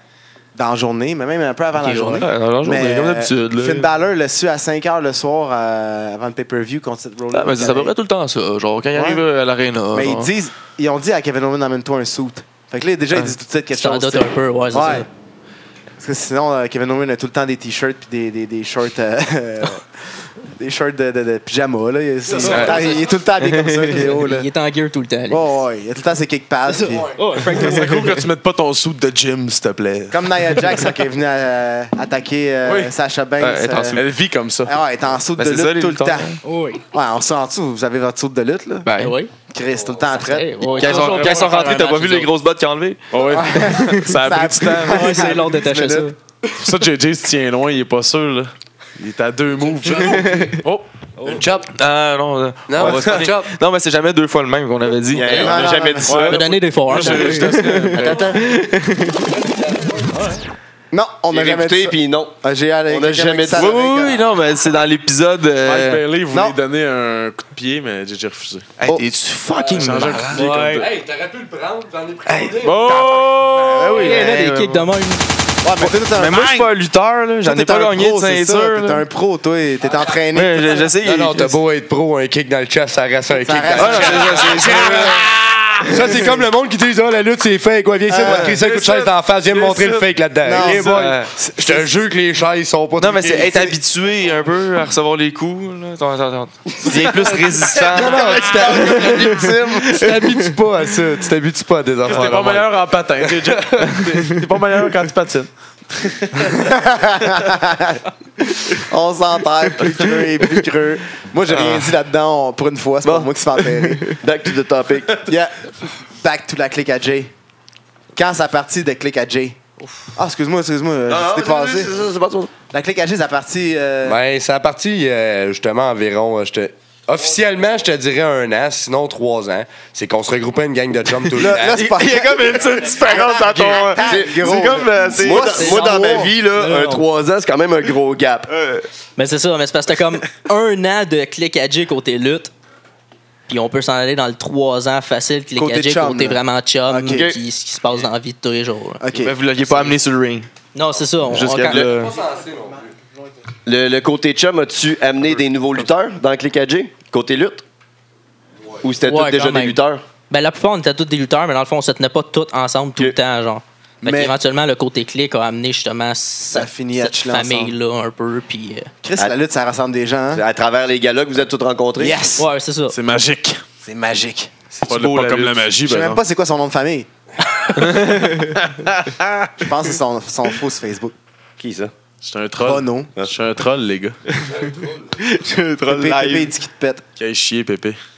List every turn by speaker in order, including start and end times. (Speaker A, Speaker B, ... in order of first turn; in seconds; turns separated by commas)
Speaker A: 0.6-7.9, Speaker B: 1.8-2.3, Speaker C: 2.2-3.9, Speaker C: 7.3-10.3, Speaker A: 8.9-9.2, Speaker A: 9.9-15.1, Speaker B: 13.7-15.1, Speaker A: 16.0-24.5, Speaker C: 22.4-22.9, Speaker C: 23.4-24.0, Speaker B: 24.0-25.6, Speaker A: 25.3-27.1, Speaker B: 26.9-28.1, Speaker D: 27.3-30.8, Speaker A: 30.1-34.0, Speaker D: 32.6-32.9, Speaker C: 33.4-34.0, Speaker D: 34.0-34.7, Speaker A: 34.7-36.4, Speaker C: 35.4-36.4, Speaker B: 36.4-36.8, Speaker A: 36.9-38.9, Speaker C: 38.8-39.1, Speaker B: 39.0-39.3, Speaker A: 39.5-40.9, Speaker B: 40.1-42.3, Speaker C: 40.8-43.1, Speaker D: 40.8-41.7, Speaker D: 43.1-45.4, Speaker A: 43.3-46.1, Speaker B: 44.8-46.1, Speaker D: 46.5-50.9, Speaker E: 49.8-50.3, Speaker C: 50.0-50.5, Speaker E: 51.2-51.7, Speaker C: 51.7-55.6, Speaker E: 52.7-53.5, Speaker F: 55.1-56.4, Speaker A: 55.3-56.3, Speaker D: 56.1-58.4, Speaker B: 56.2-58.2, Speaker C: 57.0-59.3, Speaker E: 59.4-60.0, Speaker A: 60.9-64.2, Speaker F: 61.3-62.4, Speaker F: 62.9-64.1, Speaker C: 63.6-66.0, Speaker D: 65.6-68.7, Speaker A: 66.3-66.6, Speaker C: 68.8-70.5, Speaker E: 69.6-73.6, Speaker D: 69.7-70.7, Speaker B: 70.3-70.8, Speaker C: 72.3-72.7, Speaker D: 72.6-74.2, Speaker C: 73.8-74.9, Speaker A: 73.9-74.3, Speaker B: 73.9-75.2, Speaker A: 75.6-76.7, Speaker C: 75.8-79.1, Speaker A: 77.4-80.9, Speaker C: 80.3-81.6, Speaker E: 81.0-93.8, Speaker A: 83.3-85.2, Speaker C: 83.8-85.2, Speaker A: 88.1-88.5, Speaker C: 88.3-88.6, Speaker D: 88.5-90.1, Speaker A: 90.4-91.9, Speaker C: 90.8-91.3, Speaker C: 93.0-99.5, Speaker A: 97.7-100.2, Speaker E: 97.8-102.7, Speaker D: 102.0-106.5, Speaker E: 103.4-103.9, Speaker A: 106.6-108.0, Speaker A: 108.6-114.2, Speaker C: 111.5-111.9, Speaker F: 113.0-113.3, Speaker C: 113.8-114.2, Speaker F: 114.2-115.3, Speaker A: 115.2-117.3, Speaker A: 118.2-119.6, Speaker A: 120.2-121.9, Speaker F: 121.1-122.5, Speaker A: 122.7-124.2, Speaker E: 124.0-131.9, Speaker A: 131.3-136.3, Speaker C: 131.4-135.7, Speaker F: 134.0-138.5, Speaker B: 135.5-137.0, Speaker C: 138.5-138.8, Speaker B: 139.2-142.5, Speaker B: 143.5-149.0, Speaker A: 145.6-147.3, Speaker F: 147.1-147.4, Speaker A: 149.0-149.3, Speaker C: 149.1-150.5, Speaker B: 150.8-151.9, Speaker C: 151.3-152.2, Speaker E: 151.6-152.9, Speaker F: 153.7-157.7, Speaker F: 158.8-160.0, Speaker B: 159.1-168.9, Speaker A: 164.0-164.4, Speaker A: 166.5-167.8, Speaker A: 169.0-170.4, Speaker F: 170.3-172.2, Speaker A: 172.0-172.5, Speaker B: 172.4-173.0, Speaker D: 172.9-173.6, Speaker A: 173.8-174.5, Speaker C: 174.7-175.7, Speaker D: 174.8-176.2, Speaker A: 175.8-177.1, Speaker D: 177.8-179.7, Speaker C: 177.8-178.5, Speaker A: 179.6-181.1, Speaker F: 181.6-181.9, Speaker D: 182.2-184.2, Speaker A: 182.6-183.1, Speaker C: 184.3-186.5, Speaker E: 184.6-185.0, Speaker A: 185.9-187.1, Speaker D: 187.2-188.0